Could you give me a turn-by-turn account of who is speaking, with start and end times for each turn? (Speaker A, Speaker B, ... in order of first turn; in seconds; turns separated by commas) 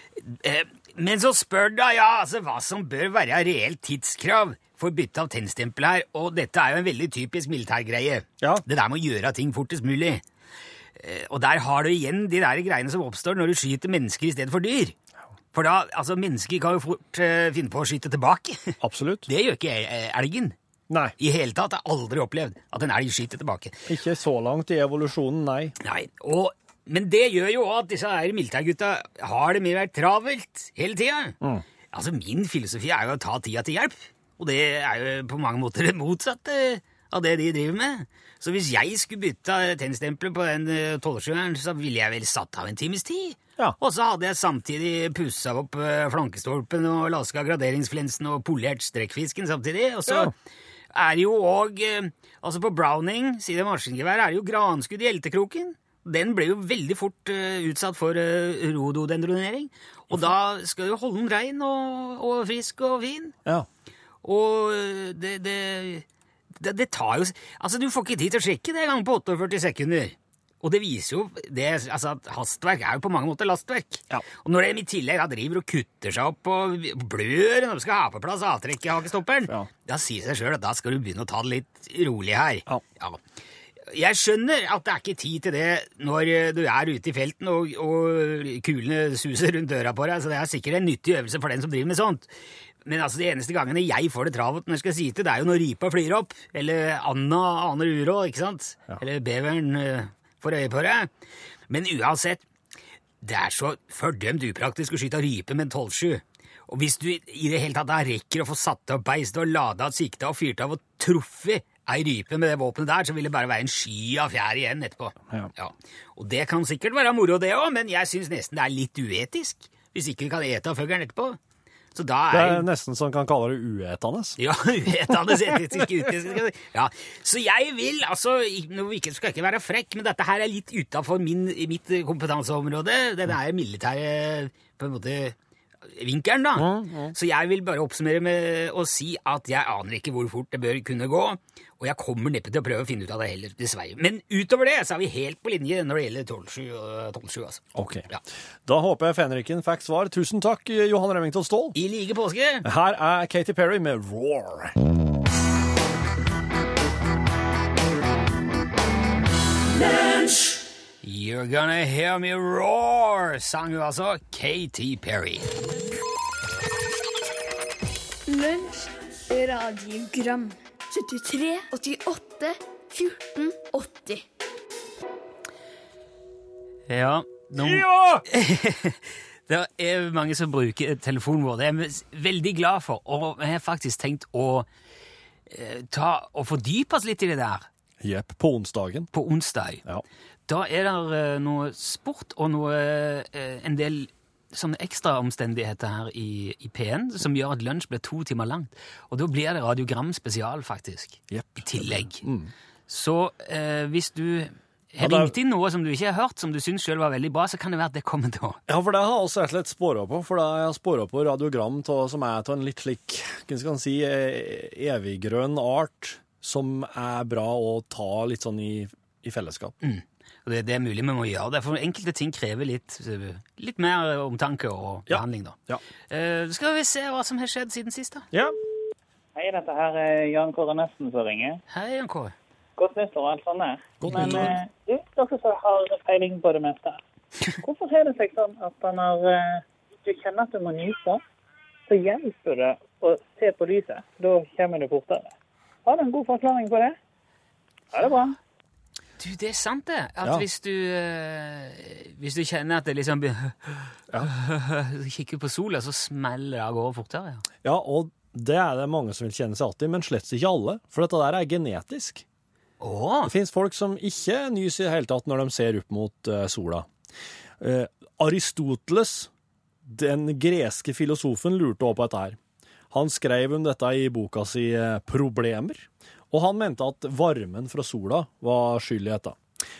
Speaker A: 0.1-10.2, Speaker A: 11.0-14.9, Speaker A: 15.5-20.6, Speaker B: 18.8-19.3, Speaker B: 20.9-21.1, Speaker A: 21.2-23.9, Speaker B: 23.9-25.8, Speaker A: 25.8-31.4, Speaker A: 31.9-50.3, Speaker B: 50.1-50.3, Speaker A: 50.9-63.4, Speaker A: 64.2-83.2, Speaker A: 83.9-92.3, Speaker A: 92.8-101.1, Speaker A: 101.7-102.5, Speaker A: 103.2-121.4, Speaker A: 121.9-122.7, Speaker B: 122.3-124.4, Speaker A: 124.4-148.2, Speaker B: 125.1-125.9, Speaker B: 136.5-137.1, Speaker B: 147.7-148.1, Speaker B: 148.6-151.8, Speaker A: 151.7-152.6, Speaker B: 152.6-154.8, Speaker A: 161.0-165.5, Speaker C: 168.3-174.2, Speaker A: 176.9-184.7, Speaker B: 177.6-178.2, Speaker A: 185.5-187.7, Speaker B: 188.0-189.1, Speaker A: 189.1-189.8, Speaker A: 190.5-202.2, Speaker B: 201.3-202.5, Speaker A: 202.9-208.6, Speaker B: 205.0-205.3, Speaker B: 208.7-219.7, Speaker A: 219.8-225.6, Speaker B: 225.1-225.8, Speaker A: 226.1-228.3, Speaker D: 229.3-231.6, Speaker A: 231.7-232.3, Speaker D: 232.8-237.0, Speaker B: 234.0-234.6, Speaker D: 237.6-241.2, Speaker D: 241.9-245.3, Speaker D: 245.8-247.0, Speaker D: 247.9-248.4, Speaker A: 249.2-257.4, Speaker B: 257.6-262.2, Speaker A: 262.8-263.3, Speaker B: 263.3-266.9, Speaker B: 267.6-269.3, Speaker B: 269.9-272.4, Speaker B: 272.9-279.4